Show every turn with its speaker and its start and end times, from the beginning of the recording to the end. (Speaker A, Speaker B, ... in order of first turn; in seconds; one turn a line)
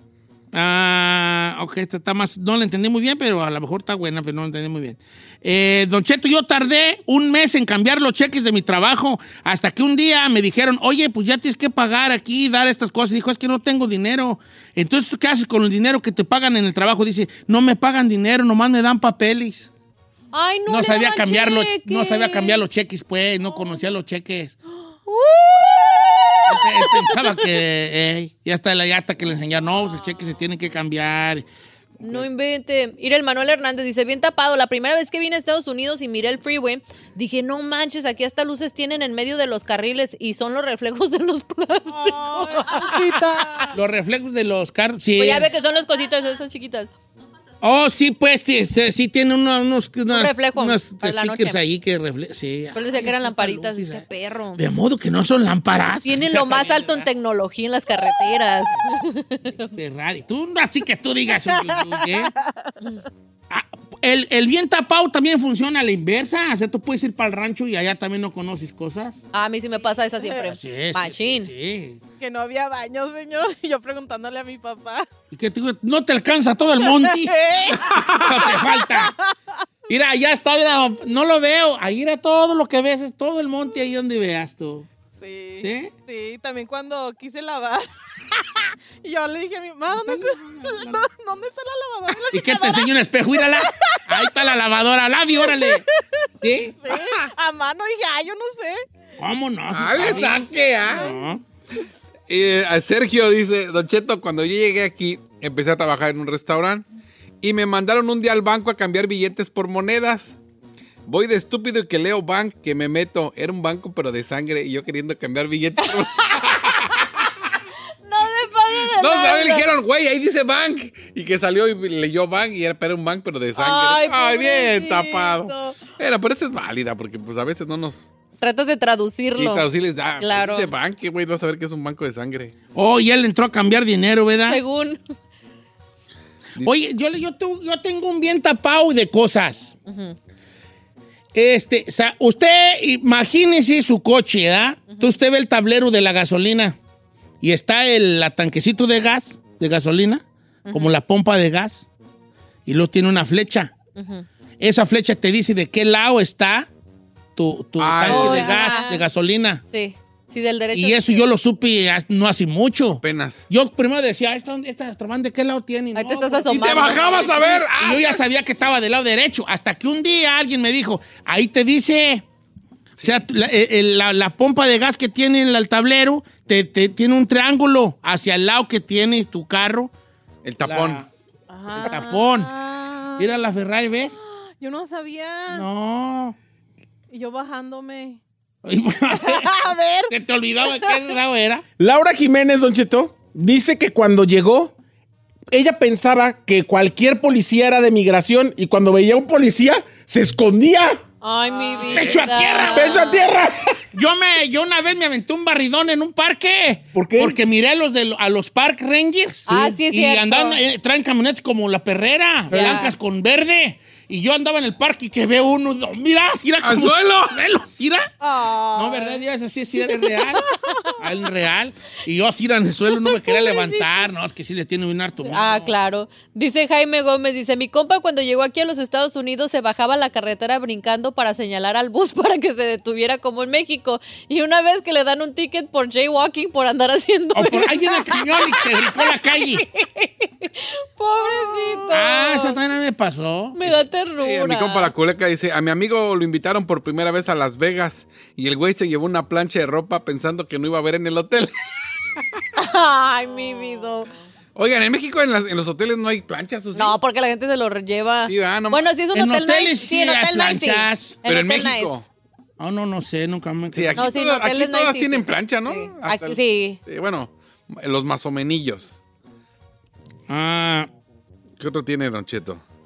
Speaker A: 0.5-19.7
Speaker B: 20.3-22.7
Speaker A: 20.7-24.5
Speaker B: 25.1-27.2
Speaker A: 26.5-31.4
Speaker B: 32.0-43.6
Speaker C: 41.9-43.7
Speaker A: 43.7-45.5
Speaker B: 45.2-46.9
Speaker A: 47.6-54.0
Speaker B: 50.1-51.6
Speaker B: 52.7-54.6
Speaker A: 54.5-57.1
Speaker B: 56.0-59.7
Speaker A: 59.7-62.3
Speaker C: 61.4-62.7
Speaker A: 63.5-69.2
Speaker B: 69.3-71.5
Speaker A: 70.4-72.0
Speaker C: 72.2-75.1
Speaker A: 75.3-79.1
Speaker C: 76.8-79.1
Speaker A: 79.9-84.9
Speaker C: 85.2-87.9
Speaker A: 85.6-85.9
Speaker C: 89.0-94.3
Speaker A: 89.9-91.0
Speaker A: 92.3-95.8
Speaker C: 95.4-95.8
Speaker A: 96.4-96.8
Speaker C: 96.8-98.8
Speaker A: 99.2-101.4
Speaker D: 99.7-101.0
Speaker C: 100.8-101.1
Speaker D: 102.3-106.8
Speaker D: 107.4-110.3
Speaker D: 111.1-117.2
Speaker B: 116.0-116.7
Speaker B: 118.0-119.7
Speaker D: 118.9-128.1
Speaker B: 123.5-125.8
Speaker B: 128.4-129.7
Speaker D: 129.3-132.5
Speaker B: 130.2-130.7
Speaker A: 132.7-134.6
Speaker B: 134.5-135.0
Speaker A: 136.6-139.7
Speaker B: 139.9-140.2
Speaker A: 141.3-146.8
Speaker B: 144.9-145.2
Speaker A: 147.4-151.9
Speaker B: 150.7-150.9
Speaker A: 152.7-153.7
Speaker B: 154.0-154.2
Speaker A: 154.6-156.7
Speaker A: 157.3-159.6
Speaker D: 157.8-158.5
Speaker B: 158.0-159.0
Speaker C: 158.5-158.8
Speaker B: 159.7-161.2
Speaker A: 160.7-167.0
Speaker D: 163.0-163.4
Speaker B: 165.9-167.6
Speaker D: 166.5-168.2
Speaker A: 167.8-172.2
Speaker D: 173.0-173.2
Speaker A: 173.0-179.9
Speaker D: 180.4-181.0
Speaker A: 180.6-181.1
Speaker C: 181.5-183.3
Speaker A: 181.7-182.5
Speaker A: 183.2-184.1
Speaker C: 184.2-185.7
Speaker A: 185.5-186.3
Speaker C: 187.1-188.2
Speaker A: 188.6-191.6
Speaker C: 189.2-190.1
Speaker C: 190.8-191.1
Speaker E: 191.8-194.7
Speaker E: 195.5-201.0
Speaker B: 201.2-203.3
Speaker C: 201.5-202.0
Speaker A: 201.9-203.0
Speaker E: 202.7-203.8
Speaker A: 203.9-218.1
Speaker E: 206.9-207.3
Speaker B: 209.5-210.6
Speaker B: 212.5-212.9
Speaker D: 216.6-217.4
Speaker C: 218.2-219.2
Speaker A: 218.7-225.7
Speaker C: 219.9-220.4
Speaker B: 223.0-224.1
Speaker B: 225.2-238.2
Speaker A: 237.3-239.6
Speaker B: 240.6-242.6
Speaker C: 241.3-241.8
Speaker A: 241.9-243.8
Speaker B: 243.6-244.9
Speaker D: 244.2-251.9
Speaker B: 252.6-254.1
Speaker D: 254.5-256.9
Speaker B: 256.7-262.0
Speaker D: 258.2-258.9
Speaker A: 259.1-261.2
Speaker D: 261.2-262.1
Speaker A: 262.6-264.1
Speaker D: 263.7-269.0
Speaker B: 264.0-266.8
Speaker A: 270.3-270.9
Speaker D: 271.6-272.6